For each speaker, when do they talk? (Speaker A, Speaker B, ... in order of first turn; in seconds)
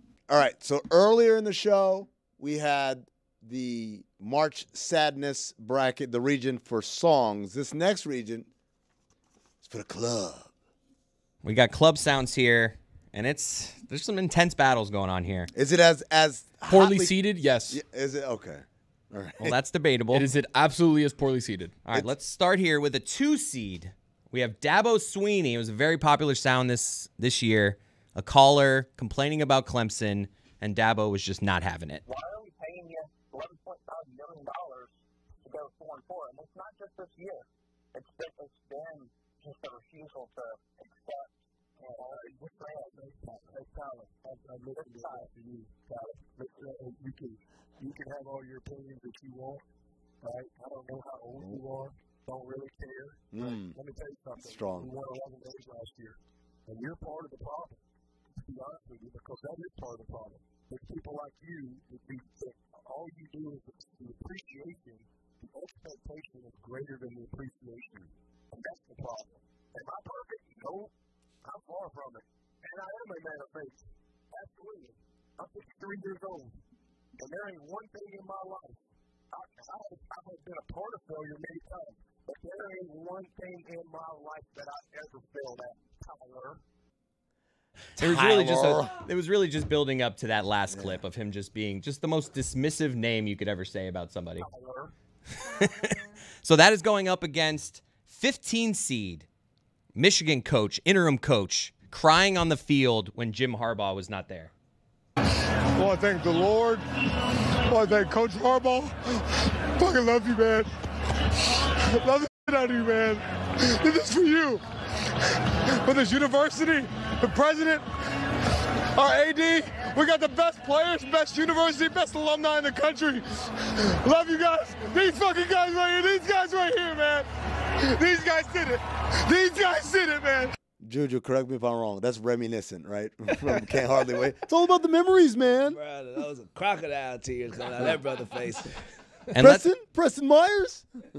Speaker A: 0.3-8.5, 9.6-10.5, 15.5-19.6, 51.3-51.6, 53.3-53.8, 54.4-54.9, 88.0-88.9, 90.7-91.0, 130.8-135.8, 139.3-140.8
Speaker B: 11.4-15.5, 19.4-20.3, 21.8-32.0, 88.0-94.5, 96.4-99.2, 99.9-104.5, 139.3-139.7
Speaker C: 16.7-17.8, 20.1-21.8
Speaker D: 32.0-34.9, 35.4-37.4, 37.9-41.2, 41.8-49.6, 50.2-57.8, 58.4-70.9, 71.4-76.6, 77.2-78.8, 79.3-86.6, 94.4-94.9
Speaker E: 105.8-106.8, 107.7-109.2, 109.8-110.7, 111.9-114.6, 115.8-117.8, 118.9-127.3, 127.8-130.5
Speaker F: 135.7-138.7